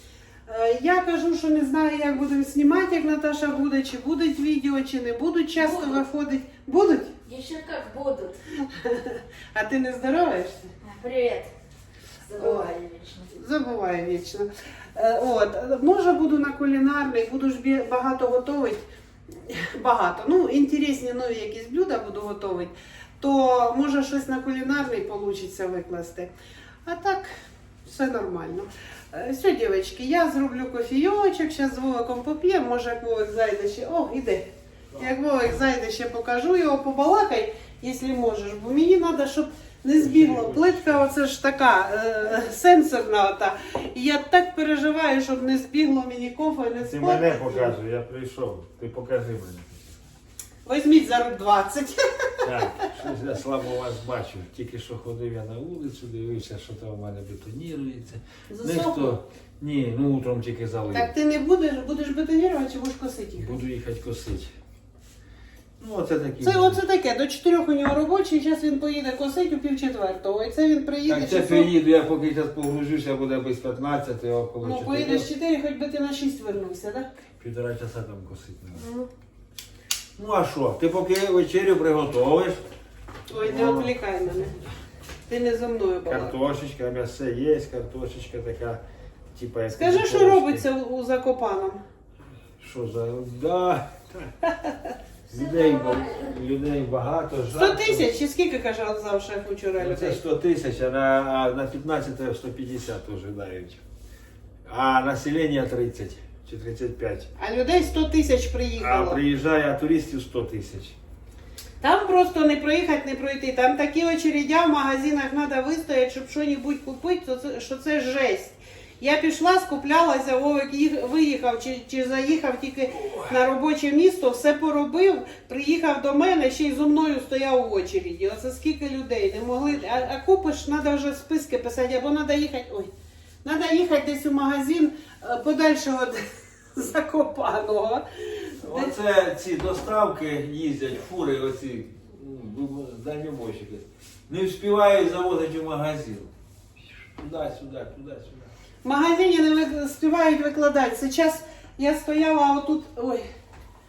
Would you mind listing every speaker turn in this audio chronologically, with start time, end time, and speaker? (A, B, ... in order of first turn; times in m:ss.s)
0:00.5-0:07.2 A
0:05.6-0:06.0 B
0:07.2-0:08.4 B
0:08.6-0:10.7 A
0:10.8-0:11.5 B
0:12.2-0:13.3 B
0:12.4-0:12.7 A
0:13.3-0:26.3 A
0:26.9-0:27.3 A
0:27.8-0:47.8 A
0:40.0-0:41.1 C
0:46.8-0:49.7 C
0:50.6-0:52.9 A
0:52.4-1:01.1 C
0:58.5-0:59.2 A
1:00.9-1:03.6 A
1:03.4-1:04.5 C
1:05.8-1:06.8 C
1:06.4-1:11.7 A
1:11.1-1:15.3 C
1:14.6-1:17.1 A
1:17.4-1:18.8 C
1:18.8-1:19.1 A
1:20.2-1:22.6 C
1:23.3-1:24.6 A
1:23.4-1:23.9 C
1:25.3-1:26.4 A
1:26.1-1:28.8 C
1:29.4-1:30.6 C
1:29.8-1:31.8 A
1:32.6-1:34.3 C
1:35.3-1:36.3 B
1:35.3-1:38.1 C
1:37.5-1:40.2 A
1:39.8-1:43.8 C
1:44.7-1:47.3 C
1:47.4-1:49.2 A
1:48.8-1:51.0 C
1:51.8-2:12.9 A
2:02.9-2:03.4 C
2:13.4-2:19.0 A
2:18.6-2:26.3 C
2:26.9-2:28.5 C
2:28.8-2:33.2 A